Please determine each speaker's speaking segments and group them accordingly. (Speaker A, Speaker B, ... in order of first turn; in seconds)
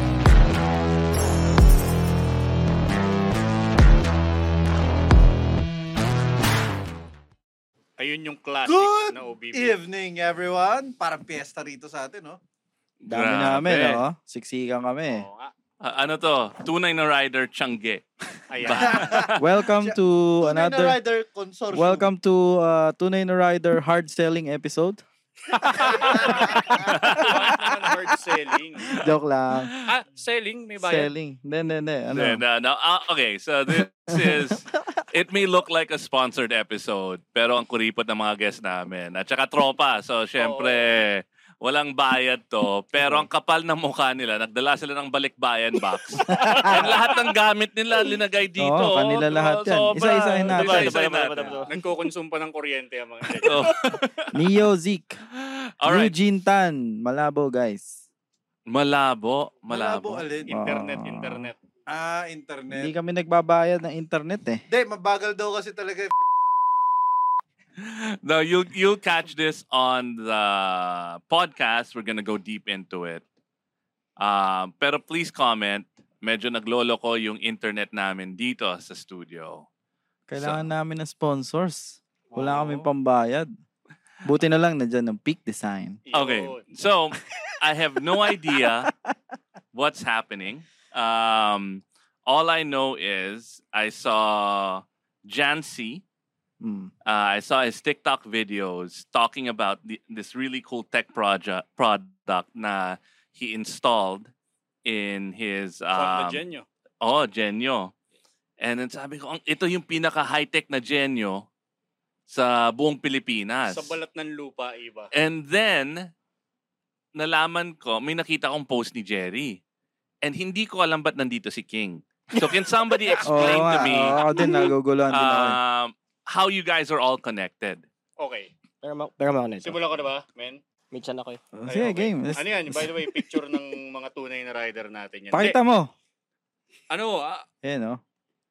Speaker A: 8.0-9.8, 15.1-15.5, 18.5-19.3, 25.6-29.1, 29.9-31.1, 40.4-40.9, 50.6-53.7, 60.4-61.6, 82.3-82.7, 86.1-86.6, 105.9-106.6, 113.7-115.1, 128.2-128.5, 129.6-130.6, 131.7-135.6, 136.9-137.4
Speaker B: 8.6-12.4, 18.8-22.1, 26.1-26.8, 59.7-60.5, 61.9-62.9, 64.7-66.1
Speaker C: 13.0-14.0, 15.8-18.0, 18.6-19.5, 26.8-27.7, 32.1-51.6, 53.4-54.3, 55.8-56.1, 58.7-60.2, 67.8-73.2, 74.2-79.7, 80.4-80.6, 86.1-88.9, 89.7-96.0, 97.0-104.3, 104.8-106.4, 107.0-107.9, 108.6-111.5, 112.3-114.0, 115.1-116.1, 117.1-119.6, 120.2-124.3, 125.1-127.8
Speaker D: 13.1-15.2, 19.4-20.9, 21.7-25.0, 27.0-27.2, 28.9-29.7, 30.8-32.4, 34.1-34.4, 42.9-43.3, 46.3-46.7, 48.6-50.9, 54.3-55.1, 55.8-57.9, 60.5-61.5, 62.7-64.6, 80.3-83.5, 84.2-86.0, 96.6-96.9, 123.2-125.6, 131.5-133.2, 135.3-135.9, 137.6-138.0
Speaker E: 46.5-46.9, 50.6-51.7, 122.9-123.2, 128.8-129.8, 130.9-131.4